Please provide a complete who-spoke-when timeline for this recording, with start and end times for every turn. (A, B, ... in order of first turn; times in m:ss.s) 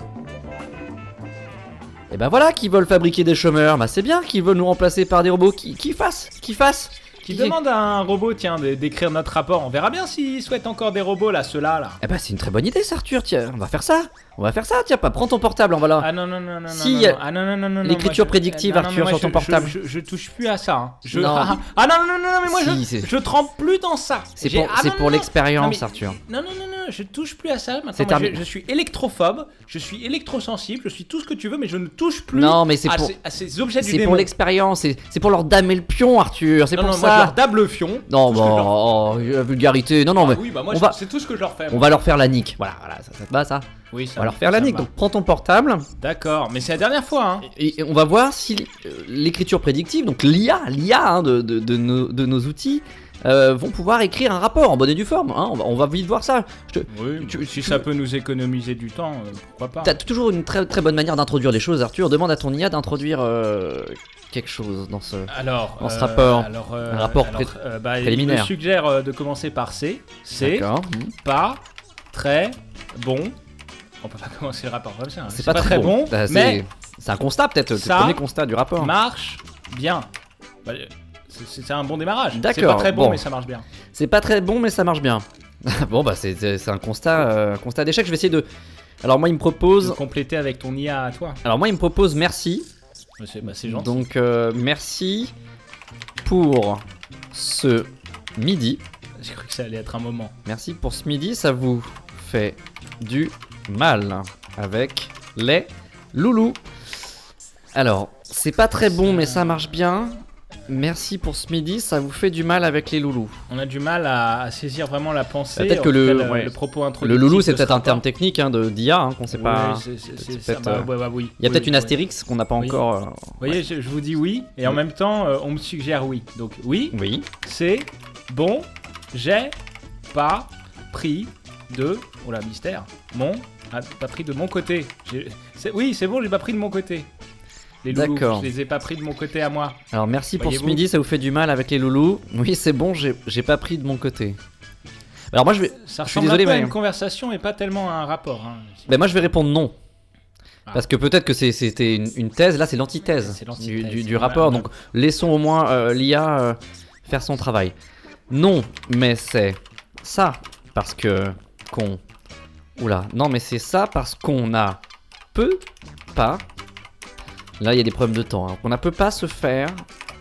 0:02.1-0:07.6 A
0:07.2-0:12.0 B
0:12.0-0:16.1 A
0:16.0-0:34.3 B
0:16.7-0:17.2 A
0:17.8-0:19.8 A
0:21.1-0:21.6 A
0:22.4-0:23.1 A
0:24.4-0:26.2 A
0:27.9-0:28.4 A
0:32.3-0:33.1 A
0:33.8-0:37.4 A
0:36.7-0:38.8 B
0:38.1-0:41.0 A
0:40.2-0:42.0 B
0:41.7-0:45.9 A
0:43.9-0:44.9 B
0:46.0-0:47.5 B
0:47.5-0:57.8 A
0:56.9-1:00.0 B
0:59.8-1:08.5 A
1:05.3-1:10.7 B
1:10.4-1:11.1 A
1:11.2-1:13.4 B
1:14.0-1:16.6 B
1:15.3-1:18.9 A
1:17.7-1:18.2 B
1:18.8-1:20.1 B
1:20.6-1:23.6 B
1:22.3-1:23.2 A
1:23.9-1:28.4 A
1:29.0-1:30.0 A
1:29.8-1:31.4 B
1:31.4-1:32.7 A
1:33.2-1:34.0 B
1:33.4-1:35.3 A
1:36.2-1:38.8 A
1:39.2-1:40.3 B
1:40.4-1:46.6 A
1:47.7-1:53.4 A
1:48.8-1:49.7 B
1:53.5-1:58.0 B
1:55.6-2:03.6 A
1:59.3-2:02.0 B
2:03.4-2:09.5 B
2:06.9-2:07.3 A
2:10.1-2:17.1 B
2:17.8-2:19.8 B
2:17.9-2:18.5 A
2:19.9-2:24.4 A
2:20.4-2:20.8 B
2:25.3-2:26.8 A
2:25.8-2:28.9 B
2:28.9-2:29.8 A
2:30.7-2:37.7 A
2:33.1-2:34.7 B
2:38.3-2:42.0 A
2:42.8-2:44.8 A
2:45.3-2:46.4 A
2:47.6-2:49.8 A